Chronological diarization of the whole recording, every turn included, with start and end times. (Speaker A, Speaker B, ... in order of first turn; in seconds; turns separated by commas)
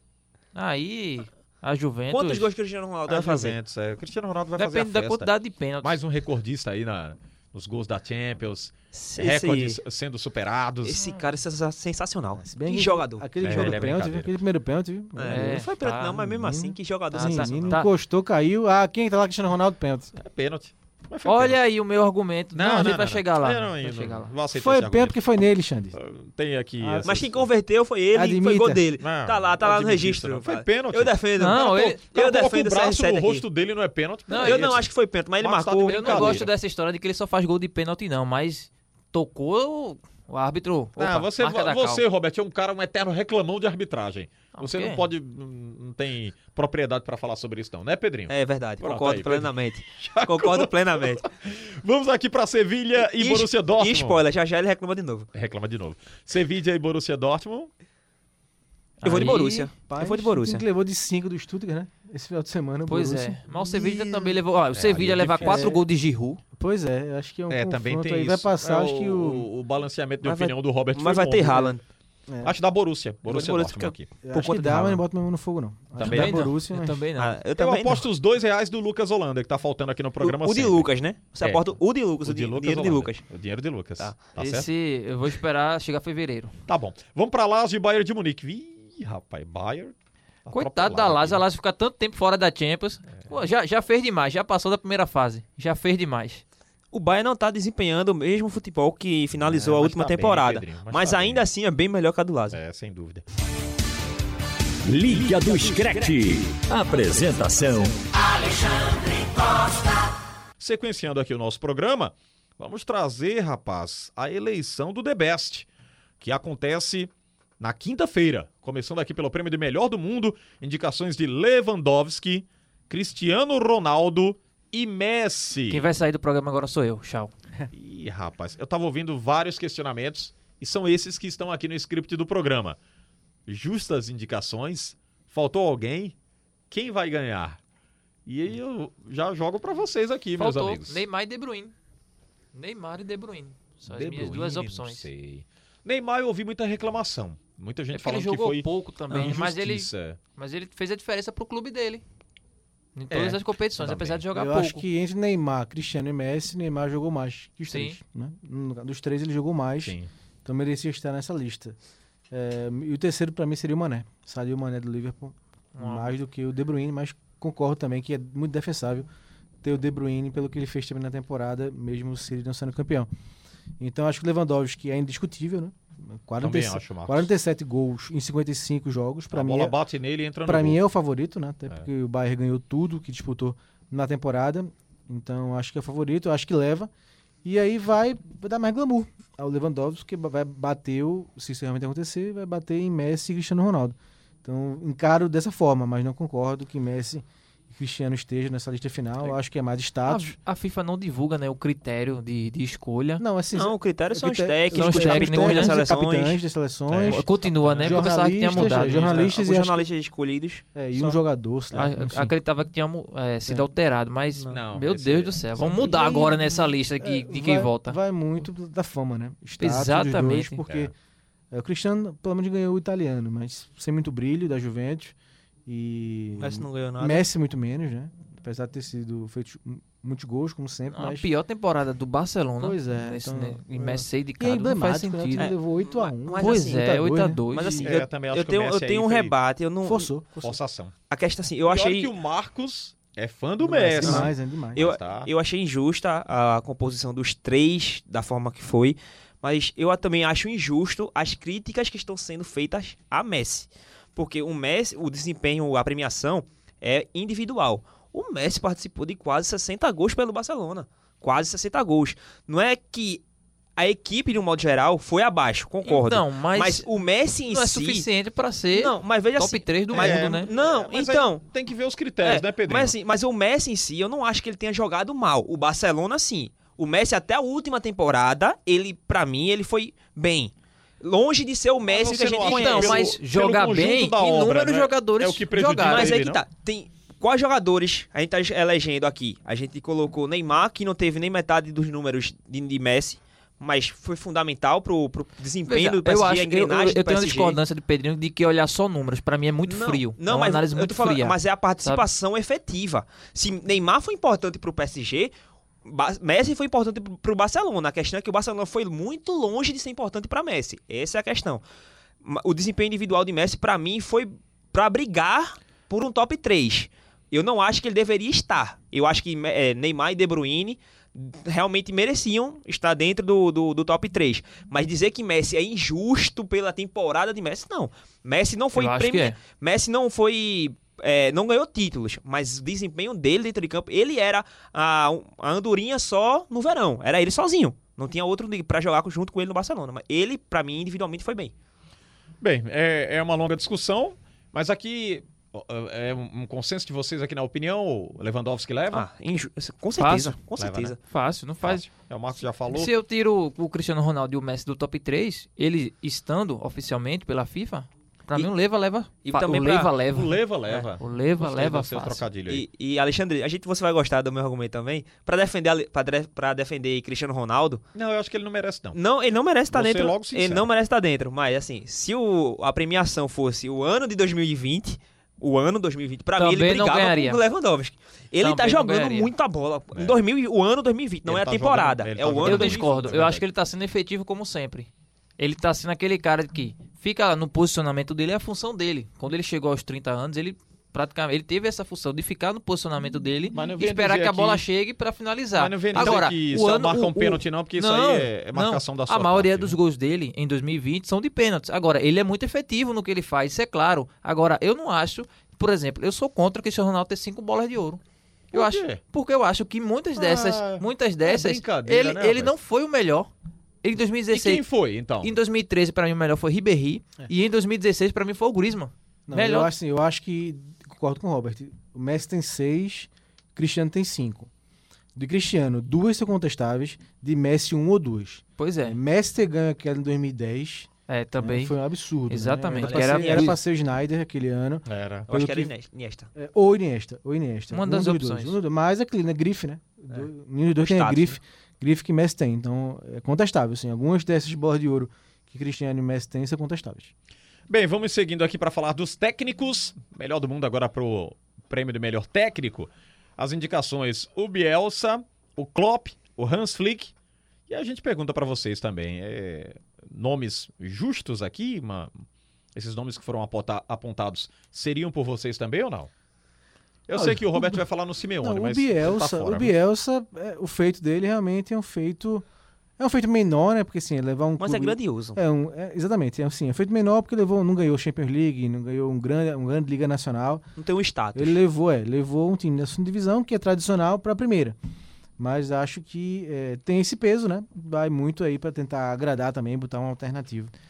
Speaker A: 0.6-2.5, Speaker B: 2.1-3.6, Speaker C: 3.1-5.3, Speaker A: 4.6-6.0, Speaker C: 5.8-11.0, Speaker B: 8.9-9.8, Speaker B: 10.8-13.9, Speaker D: 12.4-20.1, Speaker C: 13.4-14.3, Speaker B: 15.2-17.8, Speaker A: 15.3-16.2, Speaker A: 17.1-17.9, Speaker C: 20.2-21.6, Speaker A: 21.2-24.3, Speaker C: 22.6-25.2, Speaker D: 24.5-26.0, Speaker C: 25.9-27.5, Speaker D: 26.8-27.3, Speaker B: 27.0-33.5, Speaker D: 28.1-28.9, Speaker C: 29.0-34.9, Speaker A: 31.4-32.0, Speaker A: 34.3-34.7, Speaker B: 34.3-36.5, Speaker C: 35.4-36.5, Speaker A: 35.9-42.0, Speaker C: 41.0-54.2, Speaker A: 44.5-45.0, Speaker B: 48.3-51.2, Speaker B: 53.0-55.3, Speaker C: 55.3-57.7, Speaker A: 59.0-59.7, Speaker B: 59.0-60.6, Speaker D: 59.9-64.4, Speaker A: 62.9-66.4, Speaker C: 64.7-65.8, Speaker D: 65.4-65.8, Speaker D: 66.6-69.5, Speaker C: 67.5-71.8, Speaker B: 70.2-71.8, Speaker D: 72.3-72.5, Speaker C: 72.4-74.1, Speaker B: 73.3-75.0, Speaker D: 74.2-77.0, Speaker C: 76.0-76.5, Speaker A: 76.0-77.4, Speaker B: 77.2-78.1, Speaker C: 77.6-80.9, Speaker B: 80.2-83.2, Speaker C: 81.4-81.7, Speaker C: 82.2-84.7, Speaker A: 84.4-86.5, Speaker C: 86.7-89.9, Speaker C: 90.5-91.4, Speaker A: 90.5-96.4, Speaker B: 96.9-102.6, Speaker C: 99.4-101.4, Speaker C: 102.5-103.2, Speaker E: 104.9-109.8, Speaker C: 110.6-115.7, Speaker C: 116.2-125.9, Speaker A: 125.7-127.3, Speaker C: 127.7-132.8, Speaker C: 133.5-136.2, Speaker C: 136.7-137.6, Speaker C: 138.3-141.0, Speaker A: 140.4-141.7, Speaker A: 142.5-145.1, Speaker C: 143.9-150.2, Speaker A: 147.9-152.0, Speaker A: 153.0-154.8, Speaker C: 153.1-154.2, Speaker D: 154.3-161.8, Speaker A: 157.7-158.0, Speaker C: 159.8-160.1, Speaker D: 162.3-169.1, Speaker A: 165.8-166.2, Speaker D: 169.6-173.1, Speaker D: 173.8-179.8, Speaker C: 176.4-177.3, Speaker C: 179.3-180.8, Speaker D: 180.4-186.9, Speaker D: 187.4-200.3, Speaker A: 200.1-203.2, Speaker D: 203.2-207.3, Speaker B: 203.5-206.4, Speaker A: 204.7-205.8, Speaker C: 206.9-208.9, Speaker A: 207.1-209.3, Speaker D: 207.8-209.9, Speaker B: 208.8-211.2, Speaker D: 210.8-212.3, Speaker A: 211.7-218.0, Speaker B: 214.3-214.6, Speaker C: 214.5-215.9, Speaker D: 215.8-220.9, Speaker A: 219.6-220.6, Speaker D: 221.5-225.2, Speaker D: 225.7-231.3, Speaker B: 226.4-227.3, Speaker A: 230.9-235.5, Speaker D: 232.6-237.8, Speaker B: 235.4-236.9, Speaker A: 236.4-237.9, Speaker B: 237.5-240.1, Speaker C: 237.8-239.3, Speaker D: 239.8-240.6, Speaker C: 240.4-240.9, Speaker B: 241.1-242.1, Speaker C: 241.7-245.3, Speaker D: 243.6-244.9, Speaker B: 244.0-263.2, Speaker B: 263.8-268.1, Speaker A: 265.8-266.9, Speaker A: 267.5-270.5, Speaker B: 268.7-271.4, Speaker C: 269.9-272.9, Speaker B: 272.2-283.1, Speaker C: 281.9-286.4, Speaker A: 282.4-286.2, Speaker B: 285.8-297.6, Speaker A: 295.7-302.1, Speaker B: 299.7-305.3, Speaker B: 305.8-311.6, Speaker B: 312.2-341.5, Speaker A: 328.8-329.4, Speaker C: 342.4-349.1, Speaker B: 348.9-351.0, Speaker A: 350.0-350.4, Speaker C: 350.6-351.0, Speaker A: 351.0-351.9, Speaker C: 351.6-352.9, Speaker A: 352.7-360.4, Speaker B: 359.2-359.9, Speaker C: 360.1-362.6, Speaker A: 361.0-362.2, Speaker B: 362.5-367.8, Speaker C: 367.9-369.0, Speaker B: 368.9-382.9, Speaker C: 369.7-370.7, Speaker A: 376.4-377.4, Speaker A: 378.4-379.3, Speaker C: 381.3-383.4, Speaker A: 382.4-408.0, Speaker C: 393.5-394.6, Speaker C: 395.6-399.8, Speaker B: 395.9-396.3, Speaker C: 408.5-409.0, Speaker A: 408.5-413.3, Speaker C: 410.2-412.5, Speaker A: 413.8-414.6, Speaker C: 414.3-415.4, Speaker A: 415.2-419.7, Speaker D: 419.3-424.5, Speaker D: 425.2-430.9, Speaker A: 428.6-429.0, Speaker A: 431.1-431.7, Speaker D: 431.4-435.7, Speaker A: 432.3-433.6, Speaker B: 432.8-433.6, Speaker C: 434.9-435.3, Speaker B: 435.3-436.3, Speaker D: 436.4-447.1, Speaker A: 437.7-438.6, Speaker B: 440.8-441.4, Speaker C: 447.7-457.1, Speaker C: 457.7-462.2, Speaker C: 462.8-466.1, Speaker C: 467.1-469.7, Speaker D: 467.1-467.8, Speaker D: 468.4-472.4, Speaker D: 473.0-480.6, Speaker B: 474.6-475.4, Speaker B: 480.8-481.6, Speaker D: 481.4-484.8, Speaker D: 485.4-490.7